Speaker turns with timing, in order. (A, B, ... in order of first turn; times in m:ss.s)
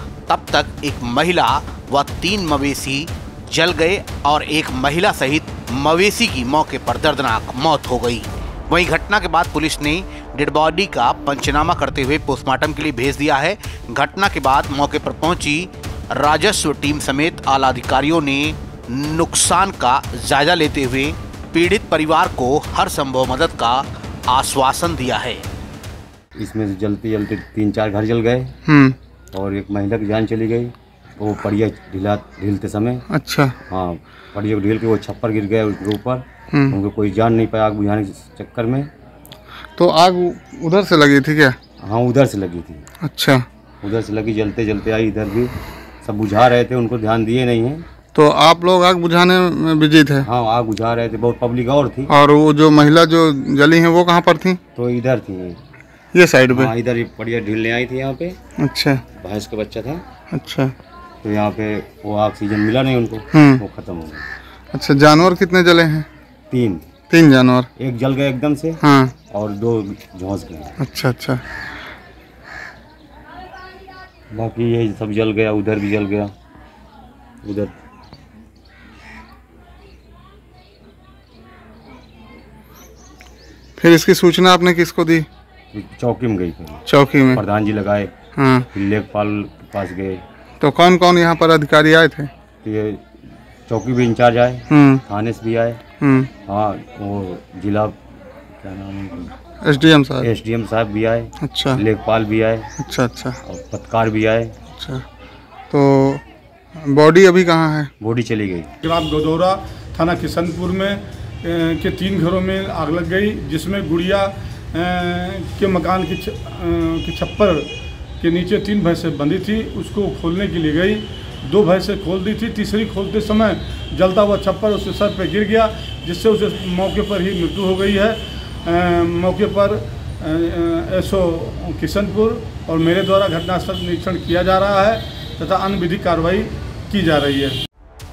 0:00.3-0:25.4 A
0:26.4-0:28.5 B
0:28.6-0:29.0 C
0:29.3-0:33.0 B
0:33.1-0:33.6 C
0:33.7-0:38.9 B
0:36.5-0:36.8 C
0:39.8-0:41.6 C
0:41.8-0:42.8 B
0:43.0-0:43.4 C
0:43.8-0:47.8 B
0:48.1-0:50.3 C
0:50.2-0:52.1 B
0:52.1-0:54.6 C
0:54.7-0:55.6 B
0:56.2-0:56.7 C
0:56.5-0:58.4 B
0:58.6-0:59.0 C
0:59.1-1:00.0 B
1:00.3-1:00.7 C
1:01.2-1:04.2 B
1:03.3-1:03.6 C
1:04.7-1:06.1 C
1:06.5-1:06.9 B
1:07.1-1:07.7 C
1:07.8-1:10.8 B
1:08.8-1:09.1 C
1:10.8-1:11.4 C
1:14.3-1:16.3 B
1:17.4-1:17.7 B
1:23.8-1:25.2 C
1:25.7-1:28.1 B
1:26.9-1:27.4 C
1:28.4-1:28.7 C
1:28.7-1:30.2 B
1:30.6-1:32.3 C
1:32.6-1:33.0 B
1:33.7-1:35.8 B
1:34.7-1:35.0 C
1:36.0-1:36.3 C
1:36.4-1:38.0 B
1:38.6-1:39.3 B
1:39.6-1:40.3 C
1:40.2-1:42.7 B
1:41.4-1:41.8 C
1:42.8-1:43.4 C
1:43.4-1:44.5 B
1:44.7-1:45.0 C
1:45.7-1:46.2 C
1:46.8-1:47.9 C
1:48.0-1:48.7 B
1:48.8-1:57.7 D
1:58.2-2:17.6 D